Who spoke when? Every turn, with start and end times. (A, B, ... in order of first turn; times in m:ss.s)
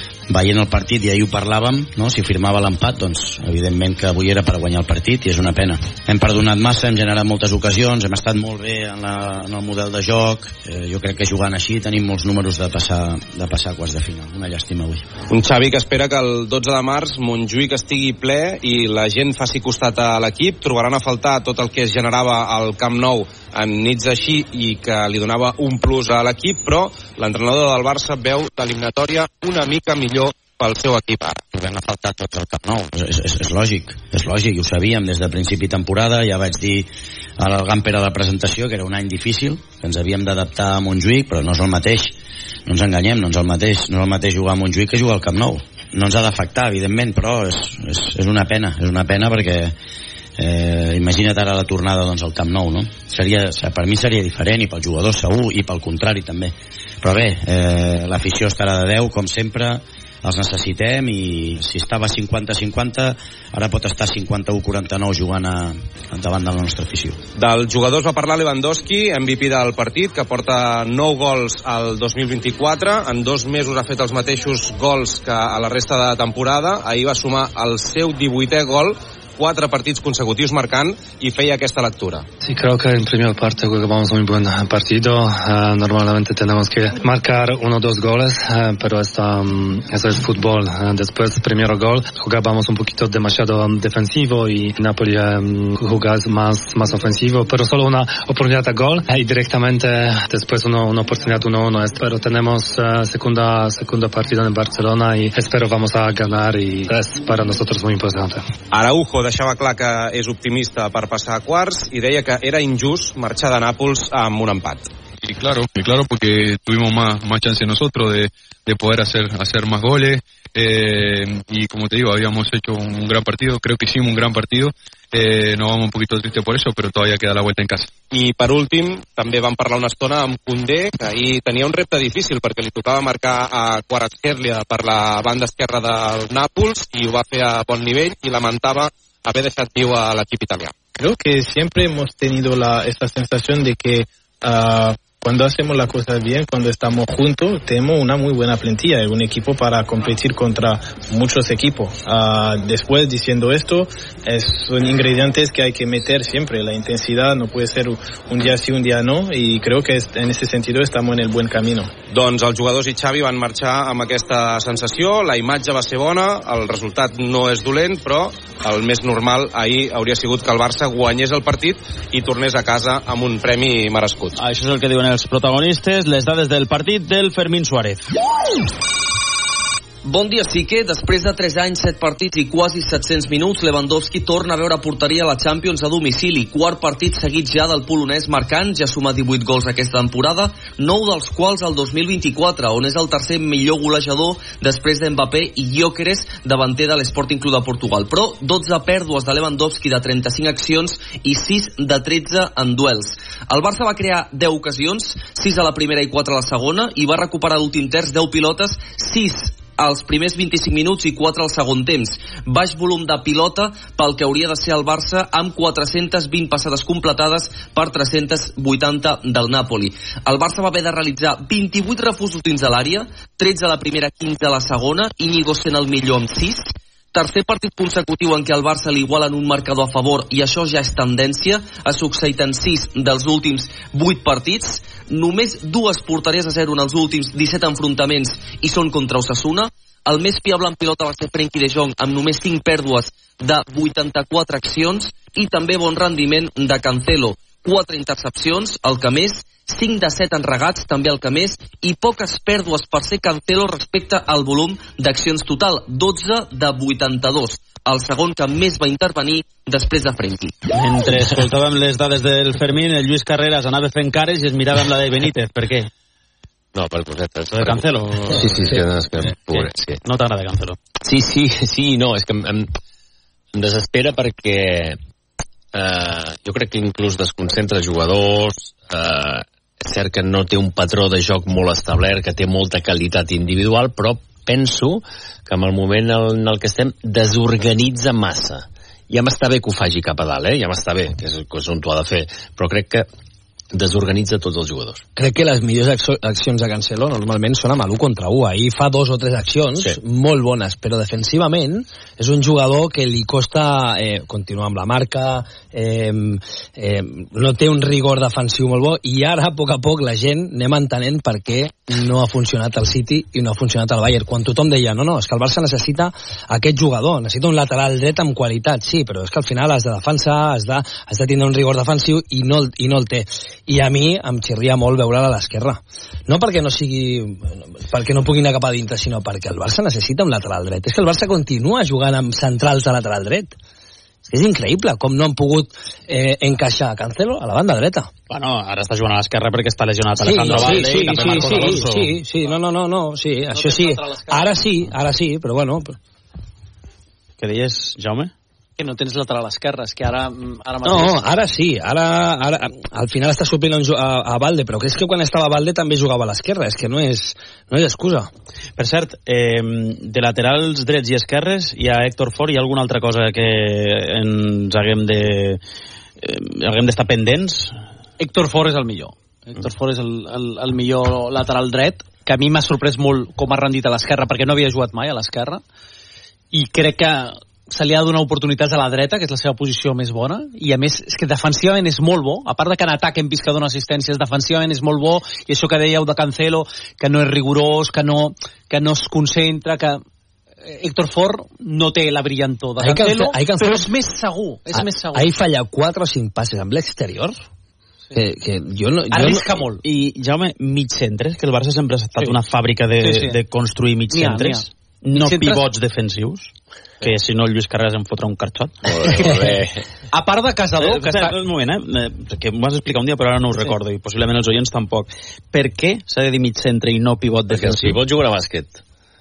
0:00.3-0:15.2 A
0:15.3-0:31.5 B
0:31.5-0:49.8 A
0:50.4-1:07.2 A
1:07.4-1:22.3 B
1:22.4-1:48.4 C
1:48.7-1:54.9 B
1:55.2-2:07.9 D
2:08.1-2:20.7 B
2:21.0-2:41.9 E
2:42.1-2:54.4 B
2:54.4-2:58.1 F
3:00.0-4:20.6 G
4:20.7-4:25.9 F
4:26.8-4:30.0 H
4:27.5-4:28.8 F
4:29.3-4:30.8 F
4:31.0-4:32.7 H
4:33.5-4:35.0 H
4:35.7-4:53.1 H
4:53.7-4:55.0 H
4:55.2-5:33.6 I
5:34.3-5:38.1 I
5:38.3-5:42.2 F
5:40.2-5:46.0 I
5:43.5-5:44.6 J
5:47.4-5:48.3 F
5:48.8-5:51.2 J
5:50.8-5:58.3 I
5:58.8-6:05.6 F
6:06.2-6:07.7 F
6:08.2-6:15.6 J
6:16.5-6:30.0 J
6:30.6-6:35.3 J
6:32.8-6:33.9 I
6:34.7-6:37.4 I
6:38.1-6:39.5 I
6:39.1-6:39.8 J
6:39.8-6:46.5 F
6:43.0-6:43.4 J
6:44.1-6:45.7 J
6:47.0-6:48.8 F
6:48.8-6:49.8 H
6:50.1-6:51.4 J
6:50.8-6:58.0 F
6:57.5-6:58.8 H